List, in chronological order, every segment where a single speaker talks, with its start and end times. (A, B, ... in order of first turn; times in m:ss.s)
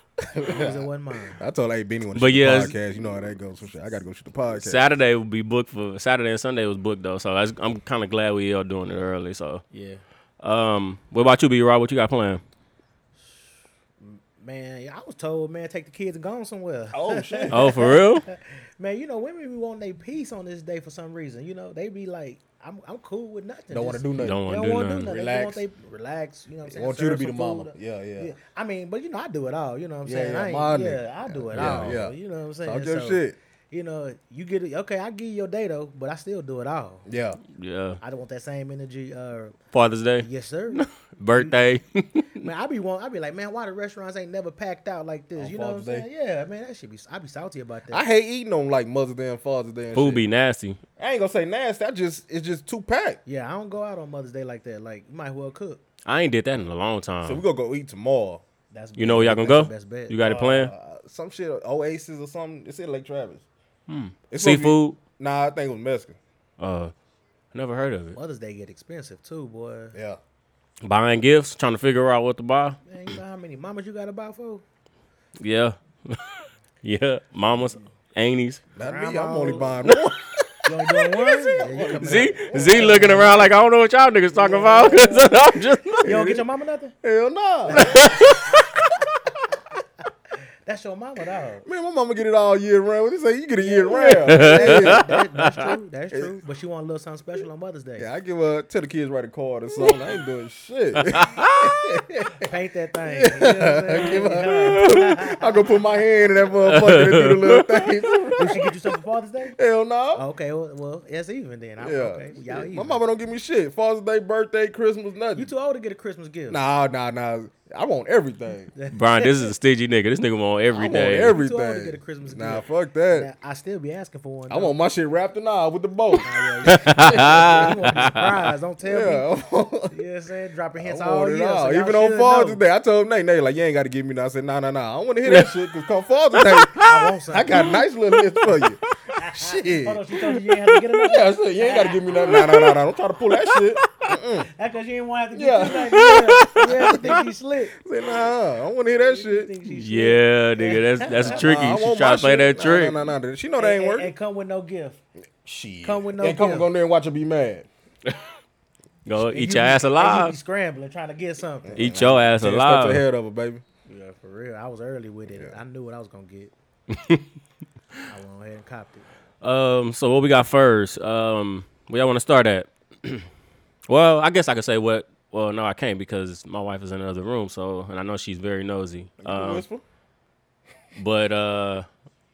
0:00.3-0:00.9 A
0:00.5-0:01.4 B
0:01.4-0:04.8 A
0:02.2-0:02.8 C
0:04.5-0:09.6 C
0:09.7-0:10.0 B
0:10.4-0:12.4 C
0:14.0-0:37.1 B
0:16.9-0:17.9 A
0:17.5-0:18.3 C
0:23.7-0:24.5 A
0:24.2-0:25.1 C
0:25.1-0:25.6 A
0:26.7-0:28.3 A
0:30.0-0:33.4 A
0:31.5-0:32.0 C
0:37.1-0:37.4 A
0:37.6-0:38.0 C
0:38.0-0:39.6 B
0:39.7-0:42.5 C
0:40.2-0:40.8 B
0:42.4-0:48.0 B
0:45.4-0:46.1 A
0:47.9-0:50.2 A
0:49.9-0:50.8 C
0:51.0-0:53.2 A
0:53.3-0:55.8 B
0:56.1-0:57.4 C
0:57.2-0:58.4 A
0:58.7-1:00.2 B
0:59.0-1:00.7 C
1:00.2-1:03.4 A
1:03.9-1:05.0 C
1:04.3-1:06.2 A
1:06.6-1:06.9 C
1:07.5-1:08.2 C
1:08.2-1:10.0 B
1:09.9-1:10.2 A
1:10.8-1:12.8 C
1:12.9-1:14.6 B
1:15.4-1:18.6 C
1:18.8-1:20.2 A
1:18.8-1:19.7 B
1:19.8-1:21.5 C
1:20.6-1:23.5 B
1:21.6-1:23.3 A
1:22.0-1:26.1 C
1:24.3-1:27.0 B
1:26.0-1:26.4 A
1:27.0-1:28.0 A
1:27.6-1:28.8 B
1:27.8-1:28.8 C
1:30.7-1:31.7 B
1:31.7-1:35.1 A
1:33.6-1:38.1 B
1:33.9-1:35.6 C
1:38.0-1:42.5 A
1:41.0-1:41.7 C
1:42.4-1:46.6 B
1:43.0-1:48.7 A
1:44.5-1:45.2 C
1:46.7-1:47.9 C
1:48.4-1:49.6 B
1:49.6-1:50.2 A
1:50.1-1:53.0 B
1:51.8-1:55.5 A
1:55.4-1:56.6 B
1:56.5-1:58.7 A
1:58.8-1:59.5 B
1:58.9-2:01.4 C
2:00.7-2:03.3 A
2:01.1-2:04.8 B
2:04.5-2:06.3 A
2:06.2-2:09.3 B
2:06.7-2:08.3 C
2:07.0-2:08.0 A
2:08.8-2:09.9 A
2:09.9-2:12.6 B
2:10.8-2:20.0 A
2:15.3-2:15.5 C
2:16.4-2:17.8 C
2:16.8-2:17.8 B
2:19.2-2:22.3 B
2:20.2-2:20.9 C
2:21.0-2:24.5 A
2:22.2-2:22.8 C
2:23.4-2:24.0 C
2:24.5-2:27.8 B
2:25.3-2:27.2 A
2:25.8-2:27.2 C
2:27.8-2:29.5 A
2:29.0-2:31.4 B
2:29.7-2:33.0 C
2:31.2-2:34.1 A
2:33.6-2:35.0 B
2:35.4-2:37.7 A
2:35.8-2:36.7 B
2:39.0-2:40.3 C
2:39.2-2:42.0 B
2:41.6-2:43.6 A
2:41.8-2:43.0 C
2:43.9-2:46.5 B
2:46.9-2:47.3 C
2:48.1-2:49.0 B
2:49.4-2:53.3 C
2:53.9-2:59.6 C
2:59.2-2:59.8 A
3:01.0-3:01.9 C